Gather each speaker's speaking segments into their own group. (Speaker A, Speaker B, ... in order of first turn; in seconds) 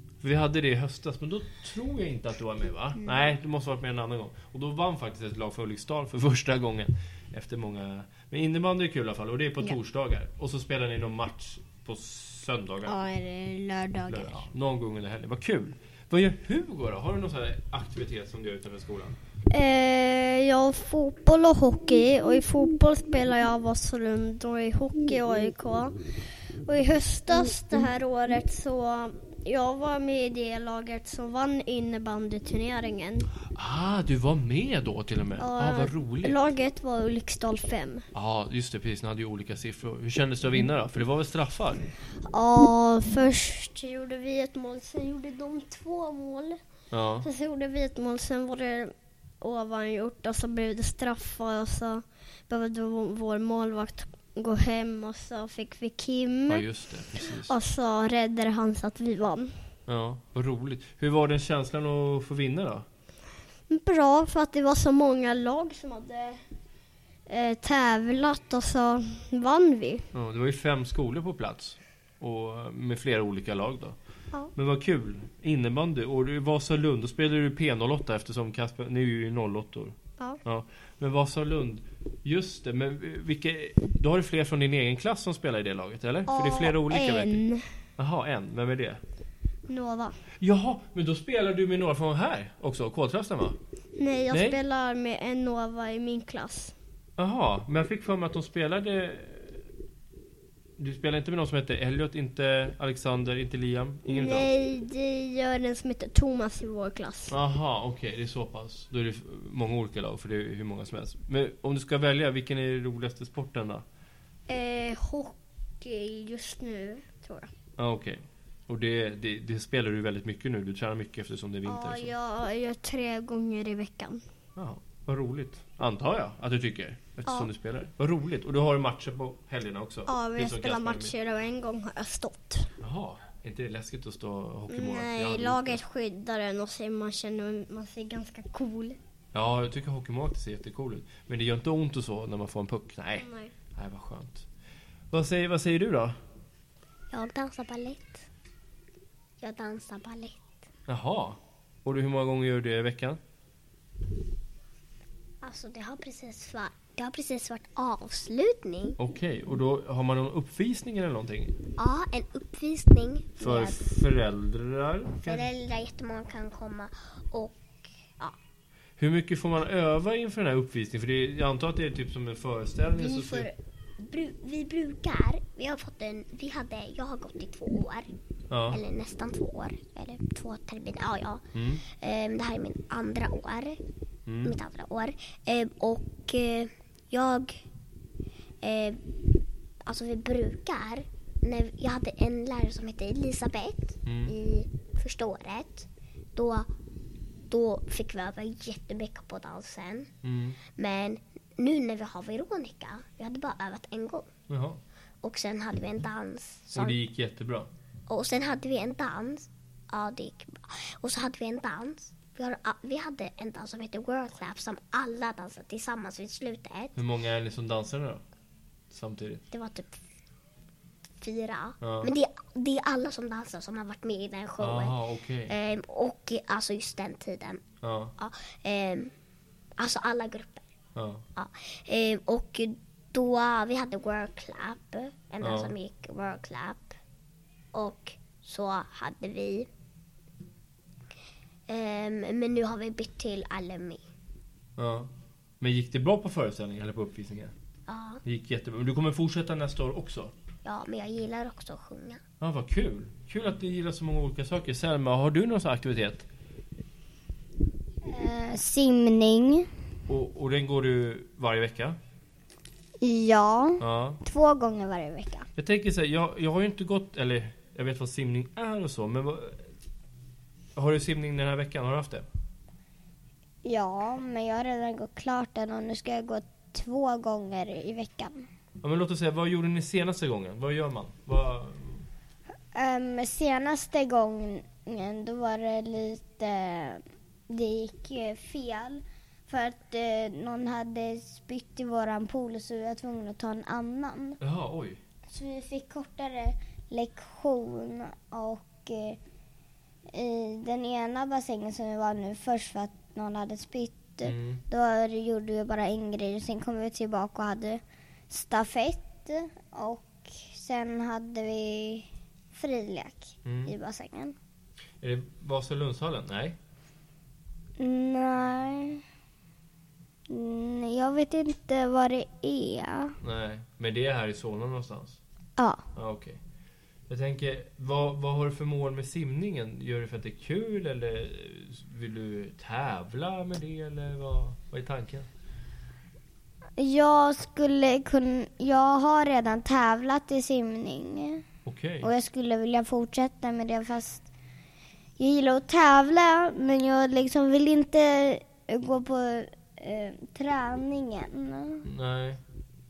Speaker A: 0.2-13.0, 14.1-19.2, 33.5-36.4, 38.1-41.9, 46.9-47.3, 56.5-57.5, 59.9-62.9, 70.1-74.0, 74.5-87.4, 88.0-89.0, 90.4-93.6, 94.3-94.6, 97.2-99.6, 100.8-104.5, 107.3-113.8, 117.8-122.1, 124.5-131.1, 132.8-135.8, 139.3-144.4, 145.1-146.2, 150.9-153.2, 159.0-161.6, 163.4-165.5, 169.0-173.5, 178.5-178.8, 181.5-181.8, 184.2-184.5, 194.0-194.3, 200.2-200.6, 204.5-204.8, 206.7-207.7, 216.9-218.2, 218.9-219.4, 221.8-222.1, 224.6-225.5, 227.8-228.1, 230.9-231.2, 235.4-235.7, 244.8-245.1, 245.6-247.5, 248.2-250.3, 252.4-256.3, 260.1-262.0, 263.8-264.2, 265.6-269.6, 270.7-272.2, 278.8-282.0, 294.4-295.0, 304.2-304.6, 313.4-313.7, 315.0-316.6, 323.2-325.2, 325.9-326.4, 327.1-335.3, 341.6-342.1, 351.8-352.4
Speaker B: 3.0-3.4, 12.8-14.4
Speaker C: 19.5-26.0, 26.6-33.3, 35.4-38.0, 42.3-46.6, 47.2-56.6, 57.2-59.5, 63.7-66.4, 67.3-70.0, 86.3-87.7, 89.7-90.2, 94.0-96.7, 104.1-107.3, 114.5-117.5, 121.7-124.2, 130.1-132.7, 134.7-139.0, 143.2-143.5
Speaker D: 147.1-148.3, 149.4-150.6, 155.4-159.0, 161.8-163.9, 165.2-168.3, 172.9-178.1, 178.7-183.8, 184.4-187.6, 188.6-189.0, 189.8-196.7, 197.5-200.1, 200.8-204.3, 205.2-207.0, 208.1-217.0, 219.5-220.0, 221.2-227.6, 228.2-229.1, 229.8-230.6, 231.3-237.0, 237.7-239.7, 241.7-244.0, 247.9-248.2, 250.6-252.2
Speaker E: 258.0-259.7, 263.0-265.5, 273.6-278.5, 282.7-294.4, 295.3-299.2, 300.1-314.4, 317.8-319.0, 320.3-323.1, 325.6-325.8, 336.8-341.4, 342.0-344.2, 345.2-351.9